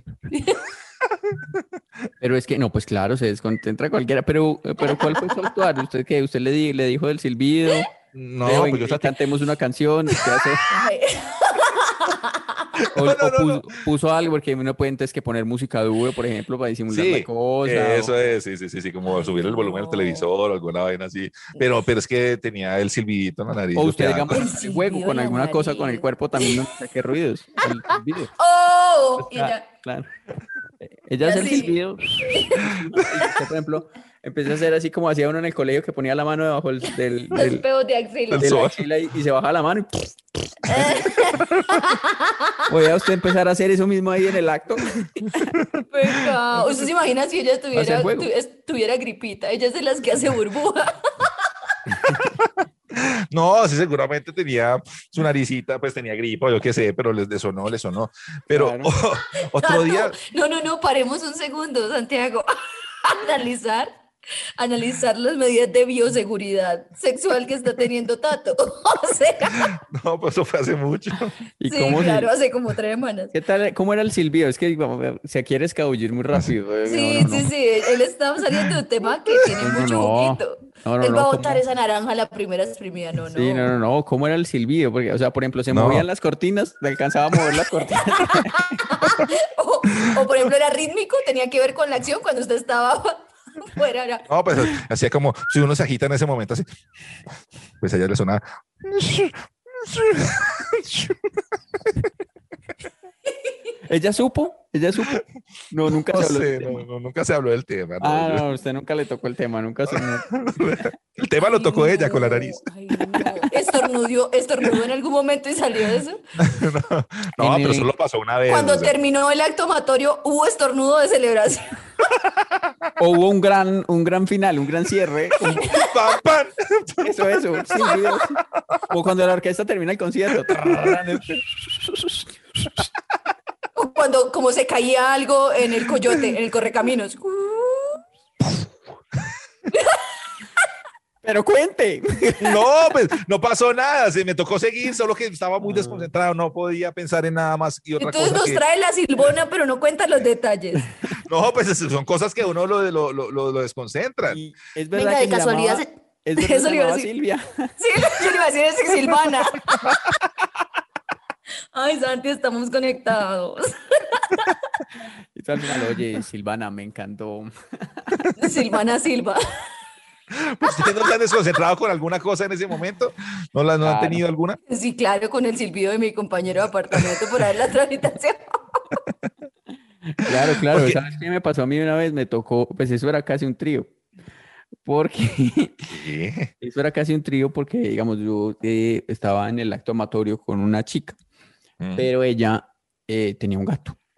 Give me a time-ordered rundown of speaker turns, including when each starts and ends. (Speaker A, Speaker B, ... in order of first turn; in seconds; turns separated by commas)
Speaker A: 0.3-0.6, Speaker B: 1.3-1.6, Speaker C: 2.2-7.9, Speaker A: 4.8-5.2, Speaker B: 8.1-9.1, Speaker C: 8.4-10.6, Speaker A: 10.7-12.7, Speaker B: 12.8-13.6, Speaker C: 12.9-18.1, Speaker B: 16.9-24.5, Speaker A: 19.1-20.3, Speaker C: 23.8-28.3, Speaker A: 24.4-26.5, Speaker A: 28.4-29.6, Speaker C: 29.2-30.1, Speaker C: 30.8-37.6, Speaker A: 31.2-32.7, Speaker A: 37.3-38.7, Speaker B: 38.3-38.8, Speaker C: 38.4-40.4, Speaker A: 40.7-42.5, Speaker C: 42.7-45.5, Speaker A: 45.9-51.2, Speaker C: 46.6-46.9, Speaker C: 47.7-48.3, Speaker B: 52.1-60.2, Speaker C: 58.5-58.9, Speaker A: 59.6-63.9, Speaker A: 64.6-69.7, Speaker B: 69.6-71.4, Speaker C: 71.6-72.3, Speaker A: 71.7-73.3, Speaker C: 73.3-77.5, Speaker A: 76.9-83.7, Speaker C: 79.6-81.6, Speaker C: 83.3-89.0, Speaker B: 85.7-86.1, Speaker A: 88.9-94.2, Speaker B: 94.3-96.7, Speaker B: 97.8-101.2, Speaker C: 103.9-106.9, Speaker B: 106.1-108.4, Speaker C: 108.0-110.2, Speaker B: 109.9-112.6, Speaker A: 111.4-116.2, Speaker B: 116.4-118.9, Speaker C: 117.4-117.9, Speaker A: 118.5-121.8, Speaker B: 122.4-122.7, Speaker C: 123.0-125.6, Speaker B: 125.5-128.0, Speaker A: 125.6-125.9, Speaker C: 127.0-132.8, Speaker B: 130.4-131.4, Speaker A: 133.8-138.0, Speaker A: 139.7-140.0, Speaker C: 141.2-142.5, Speaker B: 142.2-148.6, Speaker C: 145.6-146.1, Speaker A: 148.0-150.9, Speaker B: 151.2-154.4, Speaker C: 154.2-157.7, Speaker A: 154.9-157.1, Speaker A: 157.8-159.8, Speaker A: 161.7-164.3, Speaker C: 165.4-168.2, Speaker A: 168.4-169.7, Speaker B: 170.3-174.6, Speaker A: 170.7-171.0, Speaker C: 173.8-174.2, Speaker A: 174.7-178.8, Speaker C: 180.1-183.9, Speaker B: 180.7-181.0, Speaker C: 184.8-185.9, Speaker B: 185.9-186.5, Speaker C: 186.6-191.2, Speaker B: 191.8-192.1, Speaker C: 191.9-194.0